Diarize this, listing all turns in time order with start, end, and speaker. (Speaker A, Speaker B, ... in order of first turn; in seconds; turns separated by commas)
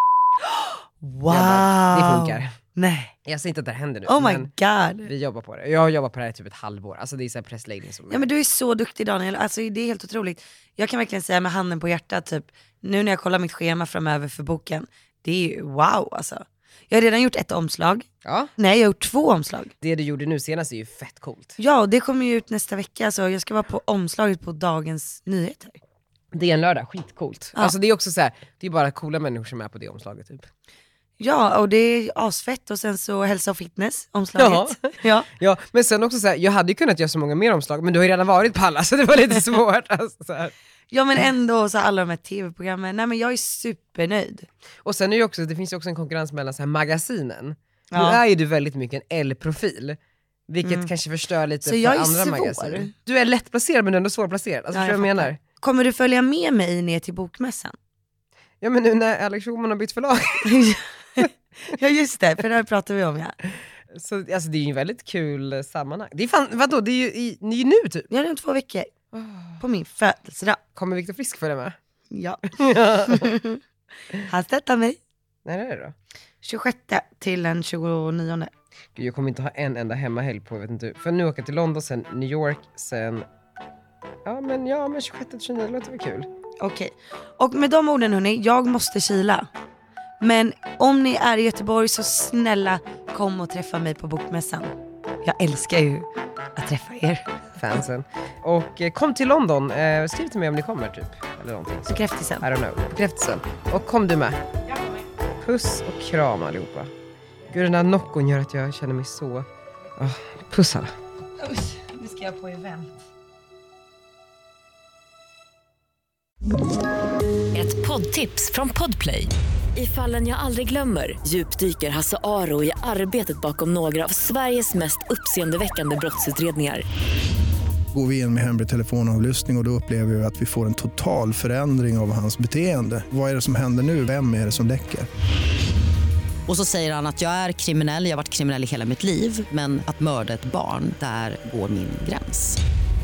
Speaker A: 0.5-3.1, Speaker B: 1.3-2.5, Speaker B: 3.2-4.5, Speaker A: 4.1-5.1, Speaker B: 5.0-8.3, Speaker A: 8.1-19.7, Speaker B: 18.2-18.5, Speaker B: 19.8-21.6, Speaker A: 21.6-25.8, Speaker B: 26.3-30.5, Speaker A: 31.2-35.3, Speaker B: 34.4-40.5, Speaker A: 40.9-44.5, Speaker B: 44.8-50.0, Speaker A: 47.9-48.2, Speaker B: 50.5-55.4, Speaker A: 50.6-50.9, Speaker A: 51.6-52.9, Speaker A: 54.7-57.8, Speaker B: 58.6-60.5, Speaker A: 60.4-63.4, Speaker B: 63.9-68.1, Speaker A: 68.1-68.9, Speaker B: 69.1-69.6, Speaker A: 69.6-70.6, Speaker B: 70.8-71.8, Speaker A: 72.1-73.6, Speaker B: 72.5-73.3, Speaker A: 74.2-75.0, Speaker B: 75.5-76.0, Speaker A: 76.4-78.5, Speaker B: 79.0-83.3, Speaker B: 84.2-86.3, Speaker A: 86.6-89.5, Speaker A: 90.2-97.3, Speaker B: 97.6-104.4, Speaker A: 101.9-102.5, Speaker B: 105.4-106.9, Speaker B: 107.5-110.9, Speaker A: 111.4-112.9, Speaker C: 117.5-126.8, Speaker D: 127.9-135.1, Speaker E: 136.5-142.6